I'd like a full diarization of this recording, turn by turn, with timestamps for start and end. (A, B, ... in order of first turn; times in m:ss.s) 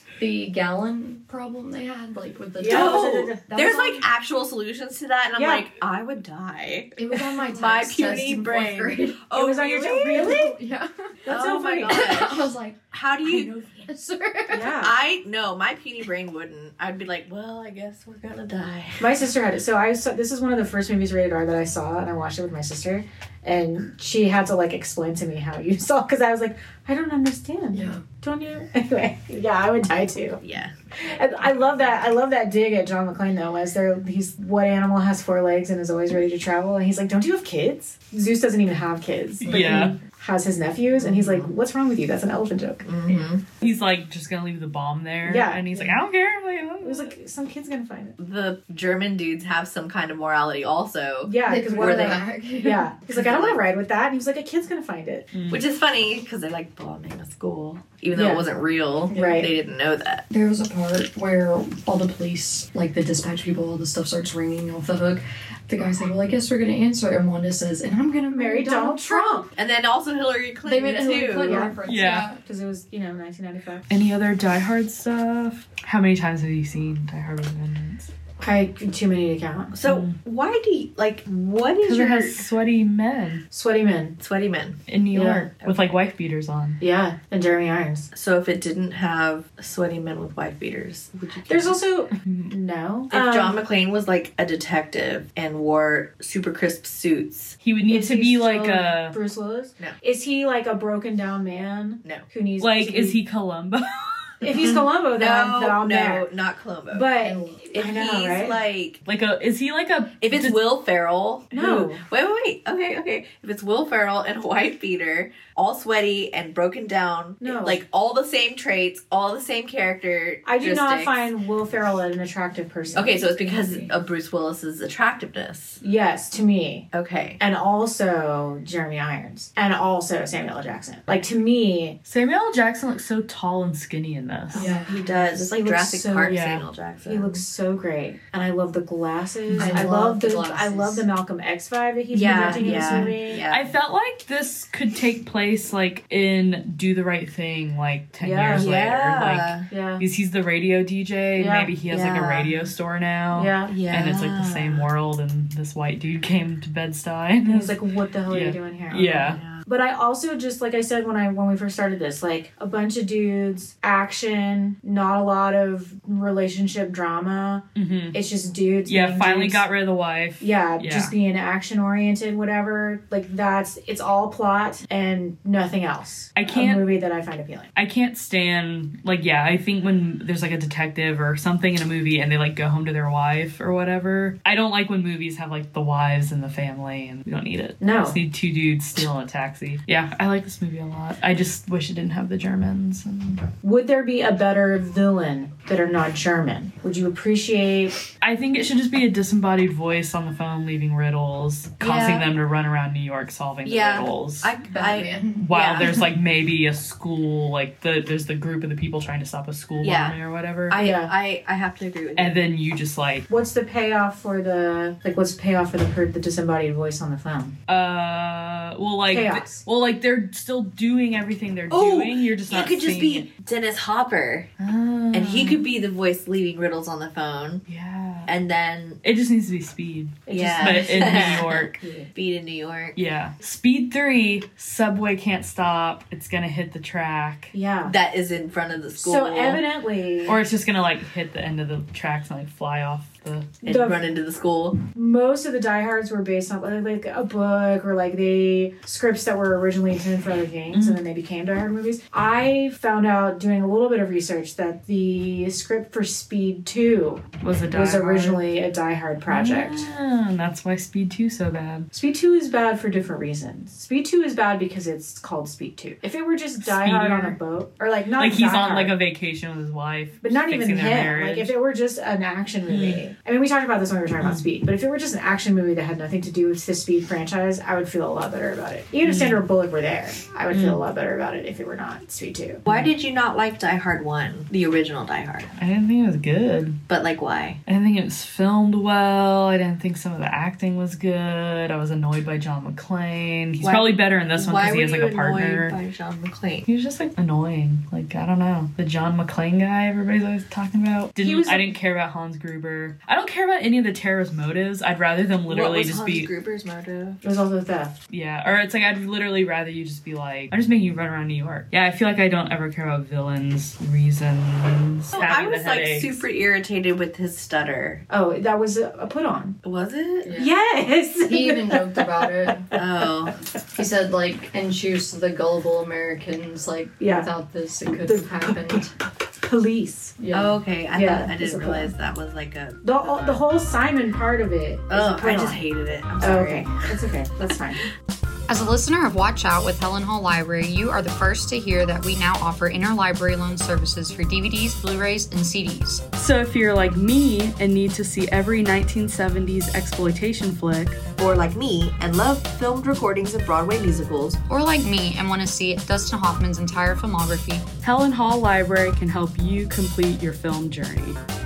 0:00.2-0:04.0 A
0:02.6-0:03.5 B
0:02.6-0:07.0 C
0:05.4-0:05.6 B
0:07.0-0:09.2 A
0:07.5-0:10.5 C
0:09.3-0:10.6 B
0:10.0-0:12.8 A
0:11.3-0:12.1 B
0:11.3-0:13.6 C
0:13.3-0:13.8 B
0:13.9-0:14.8 A
0:14.5-0:14.9 B
0:14.8-0:19.2 C
0:19.0-0:30.4 B
0:27.7-0:28.0 A
0:30.4-0:30.7 C
0:31.0-0:42.9 B
0:39.4-0:40.0 D
0:39.5-0:39.9 C
0:41.0-0:41.5 C
0:42.8-0:43.4 C
0:43.6-0:47.1 D
0:45.2-0:46.0 B
0:46.8-0:48.2 B
0:48.2-0:52.2 C
0:51.2-0:55.3 B
0:51.4-0:52.9 A
0:53.1-0:53.6 C
0:55.3-0:55.6 D
0:55.5-1:00.2 C
0:58.1-0:58.4 B
0:59.1-0:59.5 A
0:59.1-0:59.5 B
1:00.3-1:09.5 A
1:08.3-1:09.5 B
1:09.5-1:11.7 C
1:10.6-1:12.4 A
1:11.4-1:11.8 B
1:11.8-1:12.3 D
1:12.4-1:13.8 B
1:13.9-1:18.1 D
1:18.4-1:19.7 B
1:19.7-1:22.4 C
1:19.8-1:20.2 D
1:21.8-1:23.4 D
1:23.5-1:24.2 B
1:24.2-1:24.8 C
1:24.9-1:26.8 D
1:25.1-1:25.5 B
1:25.6-1:25.8 C
1:26.8-1:28.1 B
1:28.1-1:31.8 C
1:31.5-1:33.6 B
1:32.2-1:32.5 D
1:33.1-1:37.6 C
1:37.6-1:39.2 D
1:37.9-1:43.2 B
1:42.6-1:44.4 D
1:44.4-1:46.2 B
1:44.5-1:47.1 C
1:46.9-1:48.6 B
1:47.2-1:47.7 A
1:47.7-1:49.0 C
1:49.0-1:50.6 D
1:50.2-2:01.3 C
1:51.5-1:52.0 B
1:57.4-1:57.8 B
2:00.4-2:03.9 B
2:02.9-2:05.8 C
2:05.8-2:06.9 B
2:06.9-2:07.4 C
2:07.4-2:12.0 B
2:12.0-2:14.7 D
2:14.5-2:16.4 B
2:14.5-2:15.0 A
2:14.6-2:17.4 C
2:16.2-2:16.6 D
2:17.0-2:23.4 B
2:19.5-2:19.8 D
2:19.6-2:21.0 A
2:22.1-2:23.7 C
2:22.8-2:39.4 D
2:28.2-2:28.7 B
2:28.5-2:29.7 C
2:29.7-2:30.0 B
2:31.4-2:31.8 B
2:31.9-2:32.7 C
2:33.3-2:33.7 B
2:33.7-2:34.8 C
2:37.5-2:49.7 B
2:39.2-2:39.6 C
2:47.7-2:48.2 D
2:48.8-2:51.1 D
2:50.4-2:57.7 B
2:56.4-2:56.8 D
2:57.7-3:13.4 D
3:07.8-3:08.2 B
3:13.6-3:18.0 B
3:18.2-3:24.5 D
3:21.8-3:22.3 C
3:23.6-3:26.0 C
3:24.7-3:25.5 A
3:25.4-3:30.8 D
3:29.8-3:30.2 C
3:30.7-3:32.4 C
3:30.7-3:31.1 B
3:32.2-3:33.2 D
3:33.3-3:37.5 B
3:37.7-3:43.2 D
3:39.1-3:39.6 B
3:41.7-3:44.5 C
3:44.6-3:45.6 D
3:45.1-3:47.6 C
3:47.7-3:48.3 D
3:48.3-3:49.0 C
3:49.0-3:51.8 D
3:50.3-3:52.1 B
3:50.3-3:53.0 C
3:52.9-3:57.5 D
3:57.5-3:58.0 B
3:57.8-3:59.6 C
3:59.0-4:00.4 B
4:00.2-4:03.6 D
4:03.6-4:04.8 C
4:03.6-4:04.1 B
4:04.9-4:19.9 B
4:10.7-4:11.0 D
4:17.4-4:18.4 D
4:19.3-4:21.9 D
4:21.9-4:28.9 B
4:26.6-4:27.4 D
4:28.2-4:31.5 D
4:30.2-4:42.6 B
4:32.7-4:33.0 D
4:34.2-4:34.4 D
4:39.0-4:39.4 D
4:40.5-4:40.8 D
4:42.6-4:45.5 C
4:45.6-4:46.8 D
4:46.9-4:47.6 C
4:47.6-4:55.8 D
4:53.6-4:56.7 C
4:56.6-5:06.3 D
5:01.2-5:01.6 B
5:05.5-5:07.2 C
5:07.2-5:08.0 B
5:08.1-5:16.2 D
5:15.1-5:18.0 C
5:18.1-5:19.6 B
5:19.6-5:20.3 C
5:20.2-5:20.5 A
5:20.3-5:22.8 B
5:21.2-5:22.7 A
5:22.7-5:23.4 C
5:23.8-5:28.9 A
5:27.0-5:27.3 B
5:28.0-5:30.2 B
5:30.2-5:30.6 A
5:30.3-5:33.4 C
5:30.9-5:31.9 B
5:32.8-5:35.6 B
5:34.9-5:36.9 C
5:36.2-5:37.8 B
5:38.5-5:46.0 E
5:46.1-5:51.0 D
5:51.2-5:54.4 C
5:54.5-5:57.7 E
5:57.8-6:01.2 D